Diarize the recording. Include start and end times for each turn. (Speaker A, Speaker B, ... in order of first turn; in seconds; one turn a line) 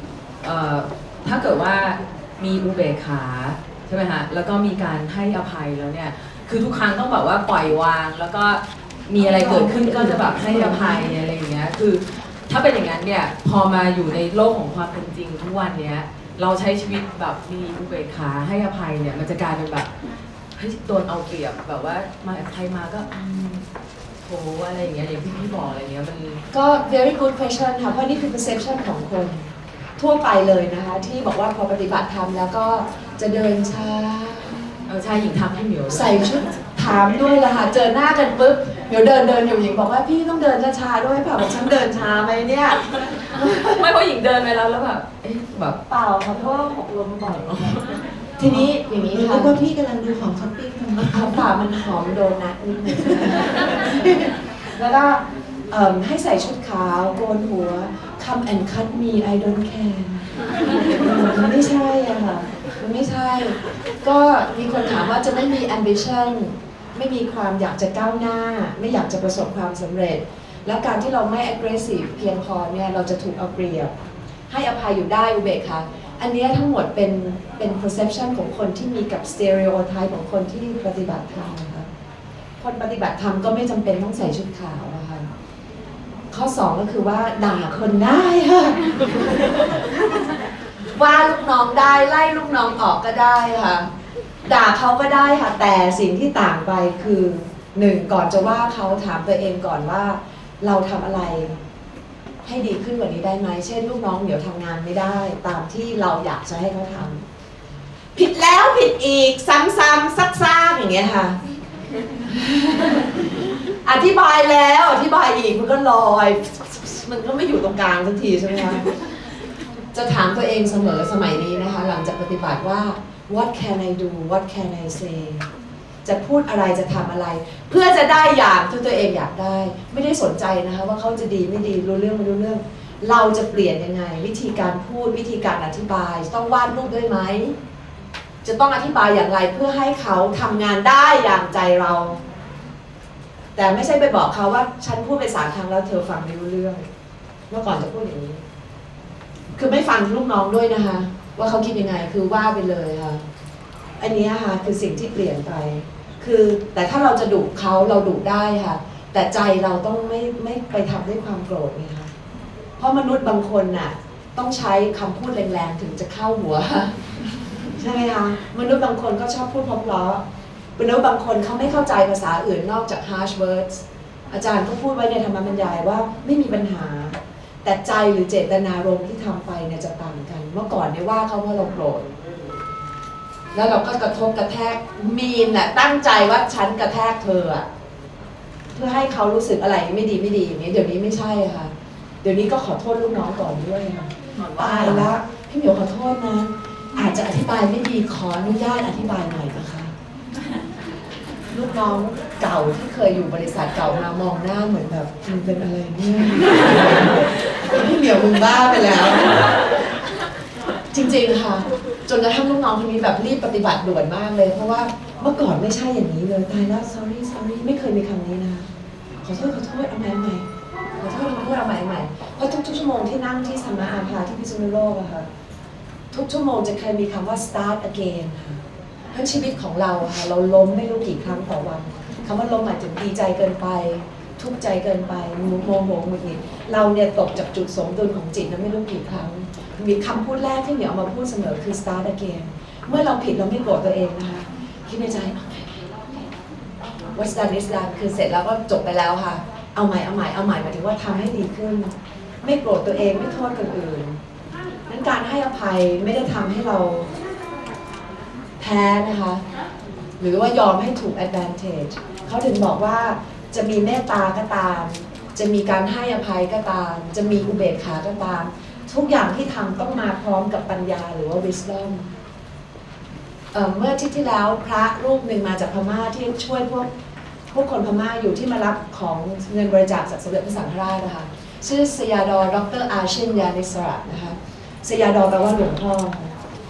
Speaker A: 0.4-19.9
Speaker B: 9.2-11.1
Speaker A: 20.6-23.6
Speaker A: 24.2-26.4
Speaker B: 26.5-34.7
Speaker A: 34.9-36.5
Speaker B: 35.9-43.8
Speaker A: 43.4-45.8
Speaker B: 45.9-47.8
Speaker B: 48.4-49.6
Speaker C: 49.0-51.4
Speaker B: 51.0-73.9
Speaker B: 74.5-81.9
Speaker B: 82.6-85.3
Speaker B: 86.3-89.6
Speaker B: 90.9-93.9
Speaker B: 94.4-101.6
Speaker B: 102.4-107.2
Speaker B: 108.1-111.4
Speaker B: 112.3-118.9
Speaker B: 119.9-125.5
Speaker B: 126.0-137.6
Speaker B: 138.4-142.2
Speaker B: 143.6-146.8
Speaker B: 147.5-148.4
Speaker B: 149.5-153.2
Speaker B: 154.0-162.1
Speaker B: 162.8-166.9
Speaker B: 167.8-170.2
Speaker B: 170.8-182.1
Speaker B: 183.5-187.7
Speaker B: 188.7-191.7
Speaker B: 192.2-199.9
Speaker A: 194.3-195.1
Speaker B: 201.5-209.6
Speaker B: 210.9-218.7
Speaker B: 219.2-220.5
Speaker B: 221.0-225.3
Speaker B: 226.1-228.6
Speaker B: 229.1-245.8
Speaker B: 247.1-254.2
Speaker B: 254.9-257.1
Speaker B: 258.6-259.4
Speaker B: 260.2-272.1
Speaker B: 273.5-276.9
Speaker B: 277.5-286.4